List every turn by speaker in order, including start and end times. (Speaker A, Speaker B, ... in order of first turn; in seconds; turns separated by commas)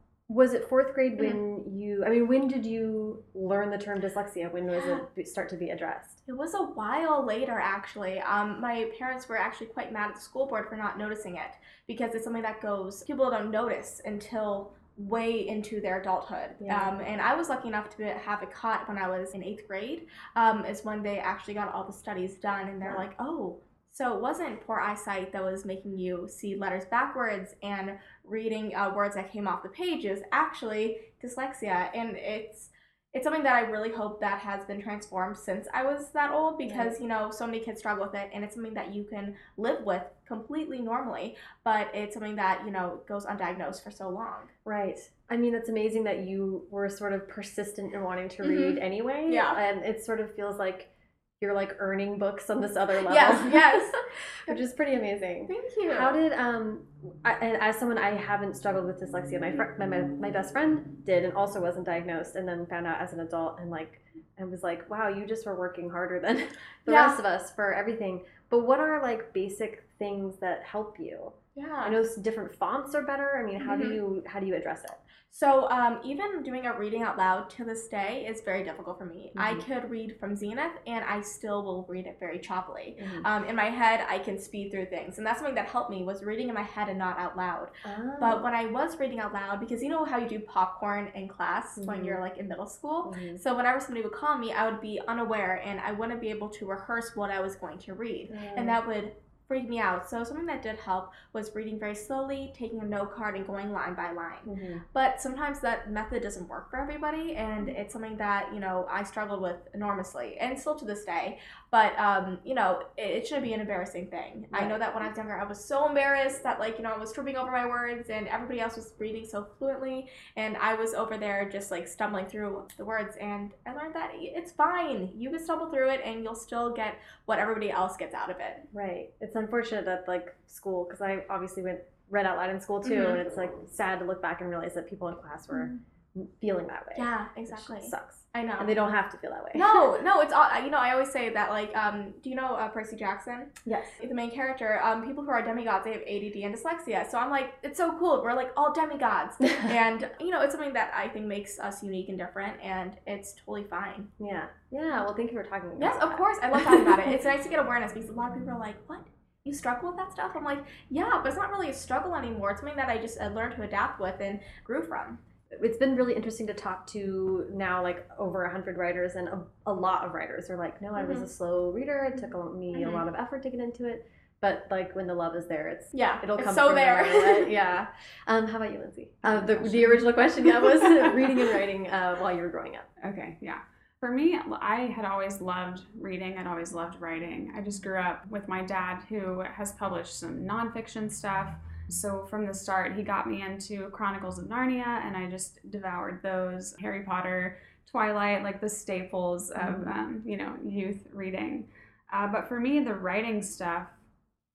Speaker A: 0.3-6.2, Speaker B: 4.7-5.0, Speaker B: 6.3-44.5, Speaker A: 16.6-17.0, Speaker A: 36.6-37.0, Speaker A: 44.6-54.0, Speaker B: 48.4-49.6, Speaker B: 53.0-54.6, Speaker A: 54.5-75.0, Speaker B: 55.5-56.2, Speaker B: 66.9-67.2, Speaker B: 71.6-72.0, Speaker B: 73.6-74.0, Speaker B: 75.3-128.7, Speaker A: 79.3-79.7, Speaker A: 83.0-83.3, Speaker A: 87.8-88.5, Speaker A: 91.8-92.2, Speaker A: 93.0-93.4, Speaker A: 98.3-98.8, Speaker A: 104.5-104.8, Speaker A: 114.5-114.8, Speaker A: 128.7-139.9, Speaker B: 132.8-133.2, Speaker B: 136.9-138.8, Speaker B: 139.6-154.1, Speaker A: 143.7-144.0, Speaker A: 154.2-157.1, Speaker B: 155.8-165.2, Speaker A: 165.5-182.9, Speaker B: 171.0-171.3, Speaker B: 172.8-173.0, Speaker B: 175.9-177.5, Speaker C: 179.2-180.1, Speaker C: 183.0-203.9, Speaker A: 199.6-199.9